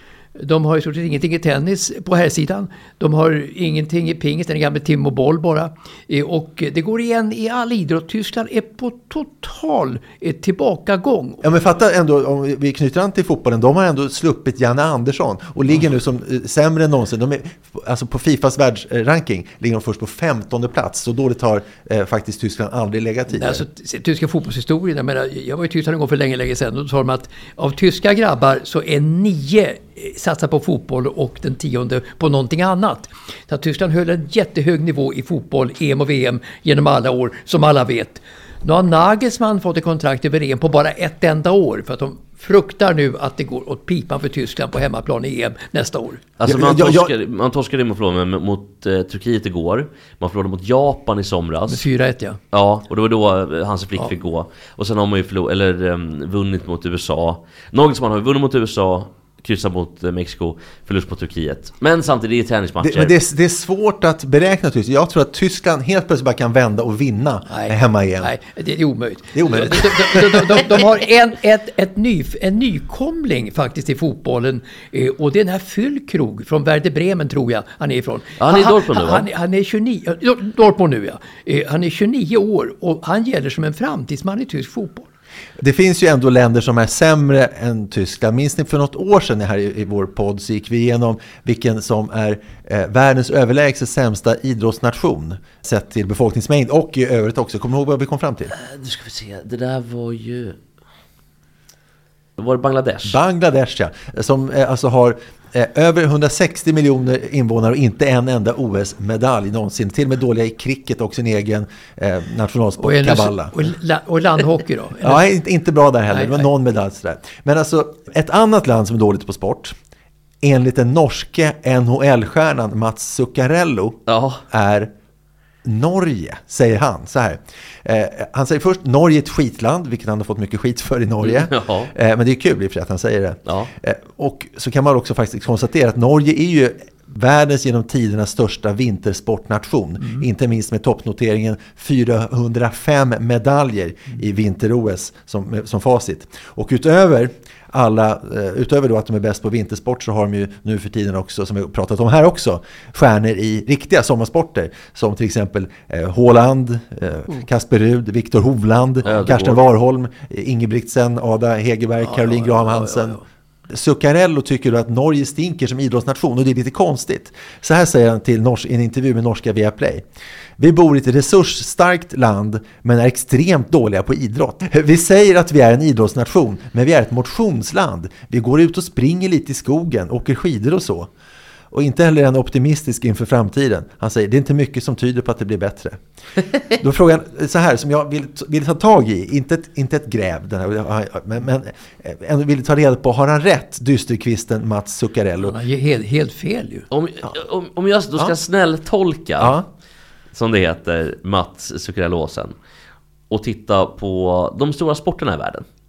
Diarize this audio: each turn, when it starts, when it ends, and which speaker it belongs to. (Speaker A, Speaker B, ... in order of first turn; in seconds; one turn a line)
Speaker A: 0.4-11.4
Speaker B: 11.4-23.6
Speaker A: 23.3-46.2
Speaker C: 46.4-51.8
Speaker B: 46.4-47.1
Speaker A: 51.7-52.4
Speaker C: 52.5-63.1
Speaker B: 62.8-68.3
Speaker A: 67.5-85.1
Speaker B: 69.3-70.6
Speaker C: 78.4-79.3
Speaker B: 85.6-98.5
Speaker C: 98.5-100.5
Speaker C: 102.4-103.2
Speaker B: 103.0-113.5
Speaker A: 112.8-115.3
Speaker B: 115.0-119.7
Speaker A: 116.1-116.5
Speaker B: 120.4-124.9
Speaker C: 124.1-124.4
Speaker B: 125.6-170.0
Speaker C: 131.2-131.9
Speaker C: 133.4-133.7
Speaker C: 159.0-159.6
Speaker A: 162.0-163.2
Speaker B: 170.6-181.1
Speaker B: 181.7-186.0
Speaker B: 186.7-195.6
Speaker A: 195.4-196.8
Speaker C: 196.9-199.6
Speaker B: 199.4-199.7
Speaker C: 200.3-202.5
Speaker C: 203.3-205.6